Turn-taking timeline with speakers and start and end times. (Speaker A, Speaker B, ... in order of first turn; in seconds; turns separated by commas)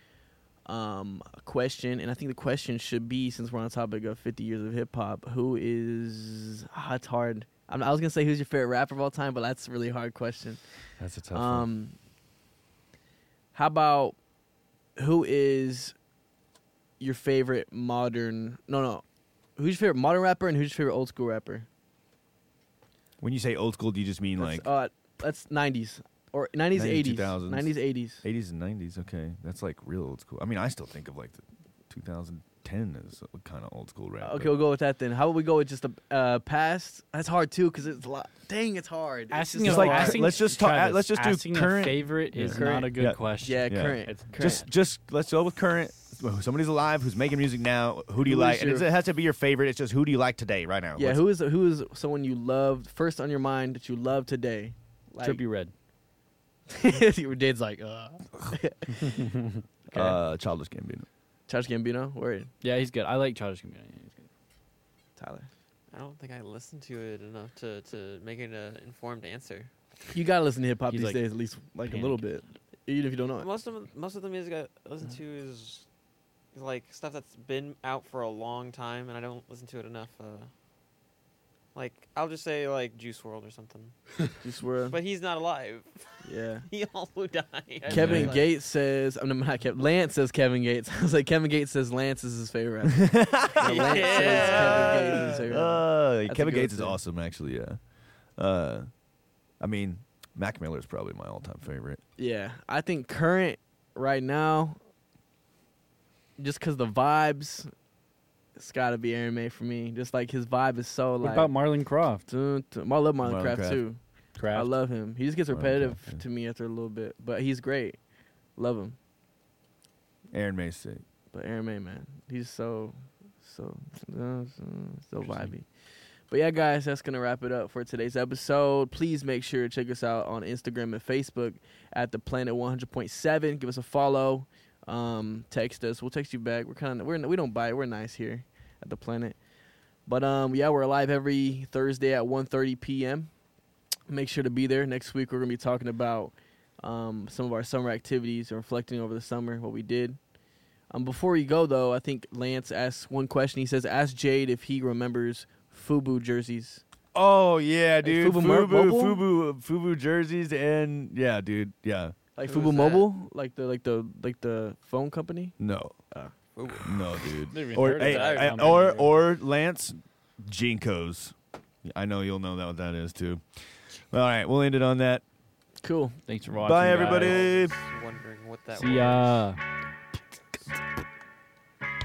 Speaker A: 0.6-10.6, Speaker B: 11.0-11.7, Speaker A: 11.3-11.9, Speaker A: 13.5-14.2, Speaker A: 14.9-15.9, Speaker A: 17.0-19.0, Speaker A: 19.6-21.7, Speaker B: 23.2-24.6, Speaker A: 24.4-28.2, Speaker B: 26.7-34.5, Speaker A: 34.2-40.4, Speaker C: 39.3-44.6, Speaker B: 39.6-51.2, Speaker A: 42.5-44.6, Speaker A: 48.2-48.9, Speaker A: 51.0-55.4, Speaker C: 55.2-55.7, Speaker A: 56.7-59.3, Speaker B: 59.9-61.0, Speaker A: 61.5-62.5, Speaker C: 62.6-64.3, Speaker A: 65.2-65.5, Speaker D: 65.9-69.7, Speaker A: 70.1-73.5, Speaker C: 70.9-71.3, Speaker C: 71.8-72.2, Speaker D: 73.4-75.9, Speaker D: 76.5-80.5, Speaker D: 81.7-84.1, Speaker A: 84.4-85.0, Speaker D: 84.9-88.5, Speaker A: 86.2-86.7, Speaker C: 87.9-88.4, Speaker A: 87.9-97.0, Speaker B: 87.9-88.3, Speaker B: 93.0-97.8, Speaker D: 93.6-95.4, Speaker B: 98.3-98.9, Speaker B: 99.6-102.0, Speaker A: 102.2-104.8, Speaker A: 106.4-107.7, Speaker A: 108.5-111.6, Speaker C: 111.2-112.2, Speaker A: 112.3-118.0, Speaker B: 113.2-113.8, Speaker C: 114.4-114.7, Speaker B: 115.5-116.2, Speaker A: 118.5-119.0, Speaker B: 120.3-121.0, Speaker A: 121.3-125.7, Speaker A: 126.3-139.4, Speaker A: 140.1-143.3, Speaker A: 144.1-150.2, Speaker A: 150.9-156.8, Speaker B: 157.1-162.2, Speaker A: 158.0-159.2, Speaker A: 162.4-165.6, Speaker D: 162.4-163.1, Speaker B: 165.6-165.9, Speaker D: 166.6-167.2, Speaker B: 166.8-173.4, Speaker C: 167.5-169.1, Speaker D: 167.8-169.1, Speaker B: 174.1-175.2, Speaker A: 175.8-176.2, Speaker C: 176.3-177.4, Speaker B: 176.5-177.7, Speaker D: 176.9-179.4, Speaker C: 178.7-179.6